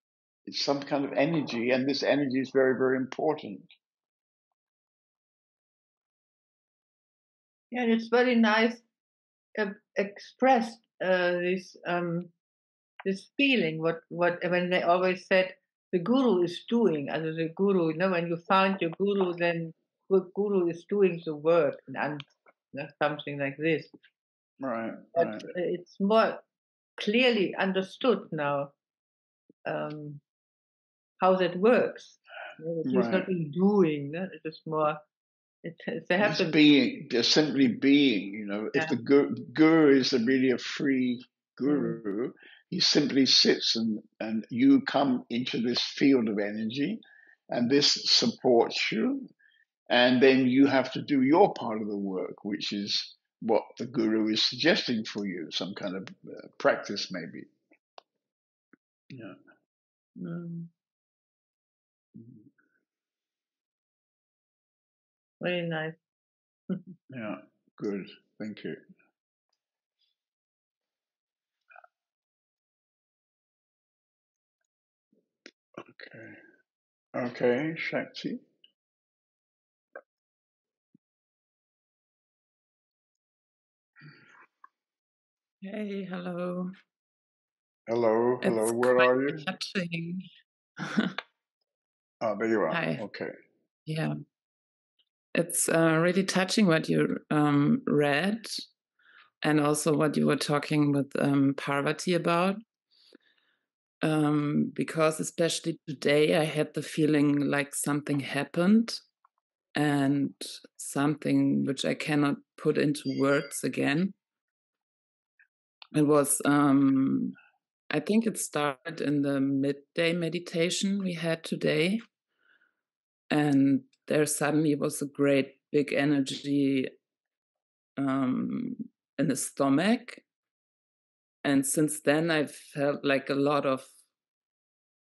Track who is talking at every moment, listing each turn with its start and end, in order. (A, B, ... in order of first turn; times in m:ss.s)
0:00.5-0:03.7 A
0:07.7-0:08.9 B
0:09.6-0:12.3 B
0:13.0-0:23.9 B
0:24.6-0:25.5 A
0:25.2-0:26.4 B
0:27.0-0:28.7 B
0:29.6-0:30.2 B
0:31.2-0:35.0 B
0:32.8-0:33.3 A
0:35.6-0:36.6 B
0:36.2-0:49.3 A
0:41.7-0:42.0 B
0:49.9-0:57.5 A
0:59.1-0:59.4 A
1:00.2-1:00.7 B
1:05.4-1:06.0 B
1:07.1-1:08.8 A
1:15.8-1:16.4 A
1:17.1-1:18.4 A
1:25.6-1:26.7 C
1:27.9-1:29.5 A
1:28.4-1:30.3 C
1:30.8-1:31.2 C
1:32.2-1:33.3 A
1:32.7-1:33.0 C
1:33.9-1:34.2 C
1:35.4-1:38.7 C
1:39.4-1:42.6 C
1:44.0-1:49.0 C
1:49.8-1:54.2 C
1:55.9-1:57.4 C
1:57.9-2:02.0 C
2:03.3-2:06.9 C
2:08.0-2:10.2 C
2:11.4-2:13.9 C